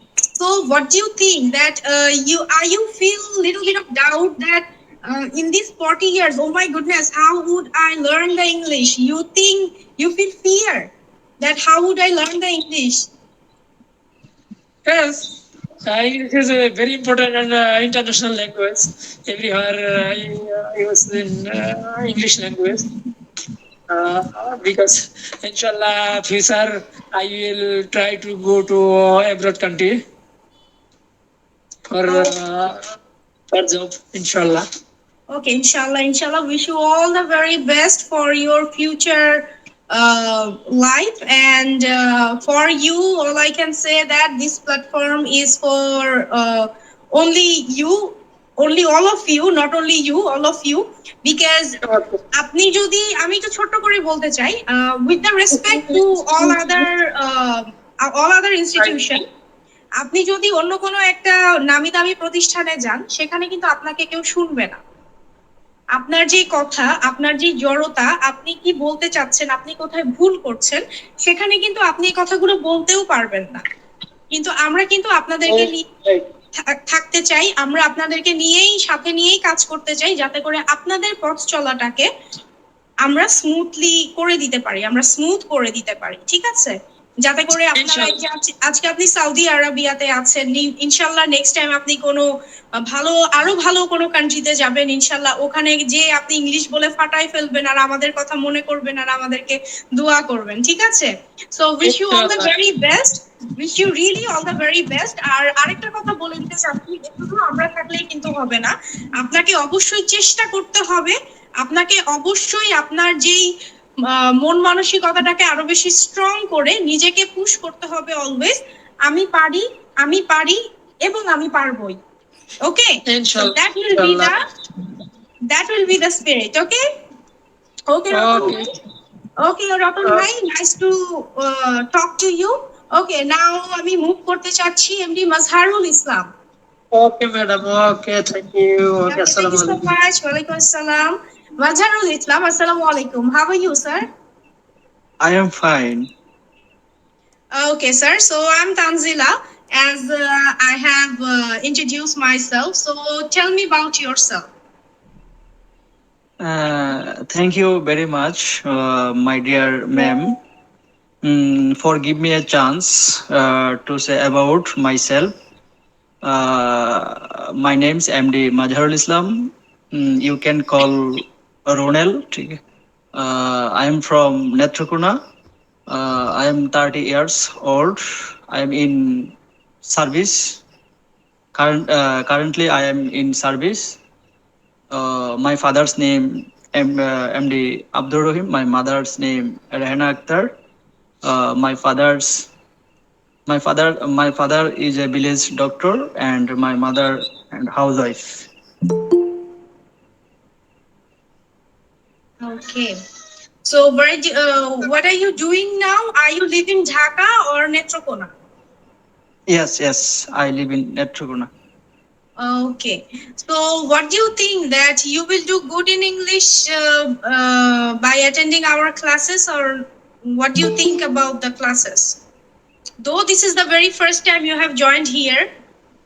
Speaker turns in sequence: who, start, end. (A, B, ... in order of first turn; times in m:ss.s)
0:00.4-0:13.1 A
0:14.9-0:22.8 B
0:23.9-0:30.0 B
0:31.9-0:32.8 B
0:33.5-0:34.6 B
0:35.3-0:51.8 A
0:51.8-0:52.2 B
0:52.4-0:59.2 A
0:55.5-0:56.9 B
0:58.8-0:59.1 B
1:00.0-1:04.8 A
1:06.0-1:13.6 A
1:14.3-1:15.9 A
1:15.5-1:16.2 B
1:16.9-1:22.1 A
1:23.0-1:32.3 A
1:27.8-1:28.2 B
1:32.9-1:53.5 A
1:41.8-1:42.5 B
1:54.1-2:02.0 A
2:02.6-2:04.4 A
2:03.1-2:04.4 B
2:05.5-2:06.8 A
2:07.9-2:08.6 A
2:08.1-2:08.7 B
2:09.4-2:16.3 A
2:16.9-2:19.8 B
2:19.1-2:24.1 A
2:25.2-2:26.1 C
2:27.5-2:34.5 A
2:36.4-2:40.4 C
2:41.2-2:45.3 C
2:46.2-2:52.6 C
2:53.1-2:55.2 C
2:55.9-2:59.3 C
2:59.8-3:00.6 C
3:01.5-3:04.0 C
3:04.9-3:10.5 C
3:11.2-3:12.5 C
3:13.5-3:18.5 C
3:22.4-3:22.9 A
3:23.6-3:28.3 A
3:29.5-3:31.5 C
3:32.4-3:42.2 A
3:43.0-3:45.5 A